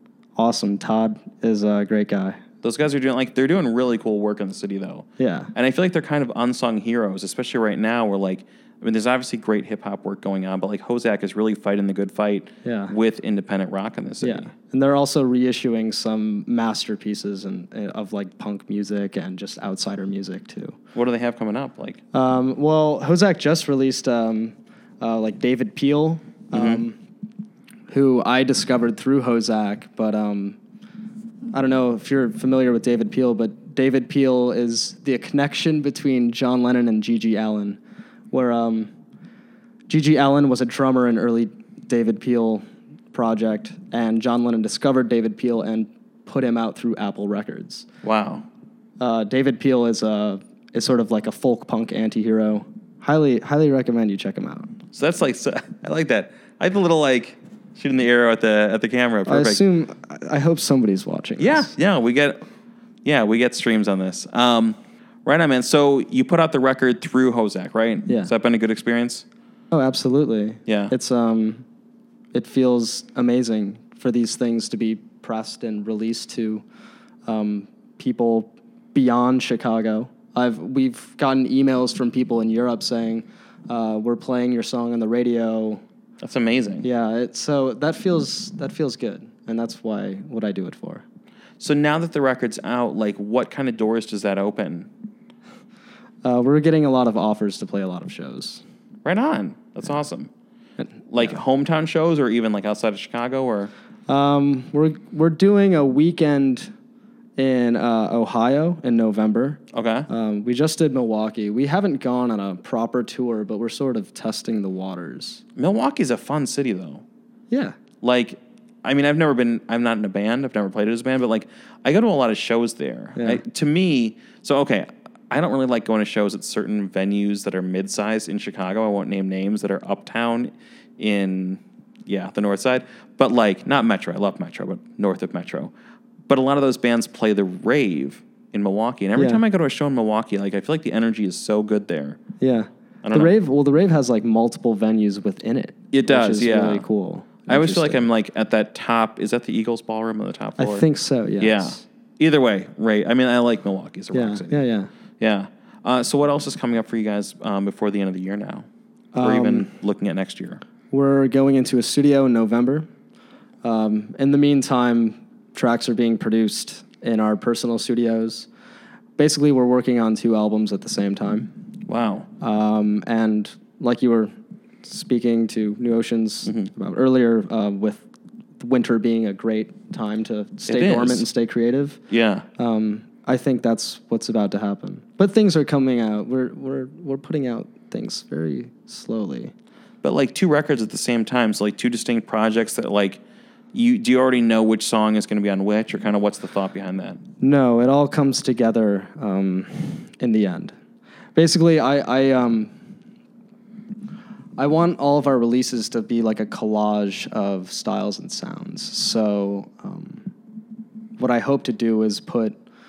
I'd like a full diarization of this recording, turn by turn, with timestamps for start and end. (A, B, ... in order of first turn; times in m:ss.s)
0:00.3-0:02.4 A
0:02.6-0:14.5 B
0:05.2-0:05.5 A
0:12.6-0:12.9 A
0:14.2-0:20.8 A
0:20.9-0:22.0 B
0:22.1-0:27.0 A
0:26.5-0:26.8 B
0:27.9-0:30.6 A
0:31.5-0:37.8 A
0:38.3-0:38.9 A
0:39.9-0:47.8 A
0:48.0-0:48.5 B
0:49.0-0:54.8 A
0:54.9-0:59.6 B
0:59.2-1:01.7 A
1:01.4-1:02.4 B
1:03.0-1:09.2 B
1:09.7-1:11.6 A
1:10.7-1:10.9 B
1:12.3-1:16.6 A
1:17.2-1:25.8 A
1:26.2-1:26.9 B
1:26.8-1:31.0 A
1:31.6-1:34.9 B
1:36.2-1:38.6 A
1:39.0-1:40.3 B
1:40.8-1:41.2 A
1:41.1-1:43.7 B
1:44.1-1:46.7 A
1:47.4-1:55.4 A
1:49.7-1:50.1 B
1:55.6-1:57.0 B
1:57.5-1:57.7 A
1:58.0-2:15.7 B
2:03.2-2:03.4 A
2:16.3-2:22.2 B
2:19.1-2:19.4 A
2:22.4-2:28.0 A
2:23.0-2:23.3 B
2:25.9-2:26.8 B
2:27.5-2:30.8 B
2:30.6-2:31.8 A
2:31.4-2:34.6 B
2:34.1-2:34.9 A
2:35.2-2:38.6 B
2:39.1-2:39.7 A
2:39.2-2:40.6 B
2:40.9-2:42.9 A
2:43.6-2:48.5 A
2:49.2-2:51.5 A
2:51.9-2:52.3 B
2:52.4-2:54.3 A
2:54.8-2:58.0 A
2:58.6-3:02.0 A
3:00.7-3:01.3 B
3:02.1-3:02.4 B
3:02.6-3:09.5 A
3:10.0-3:13.2 B
3:13.7-3:17.2 B
3:17.4-3:20.7 A
3:21.3-3:22.7 A
3:24.6-3:30.3 A
3:31.2-3:32.6 A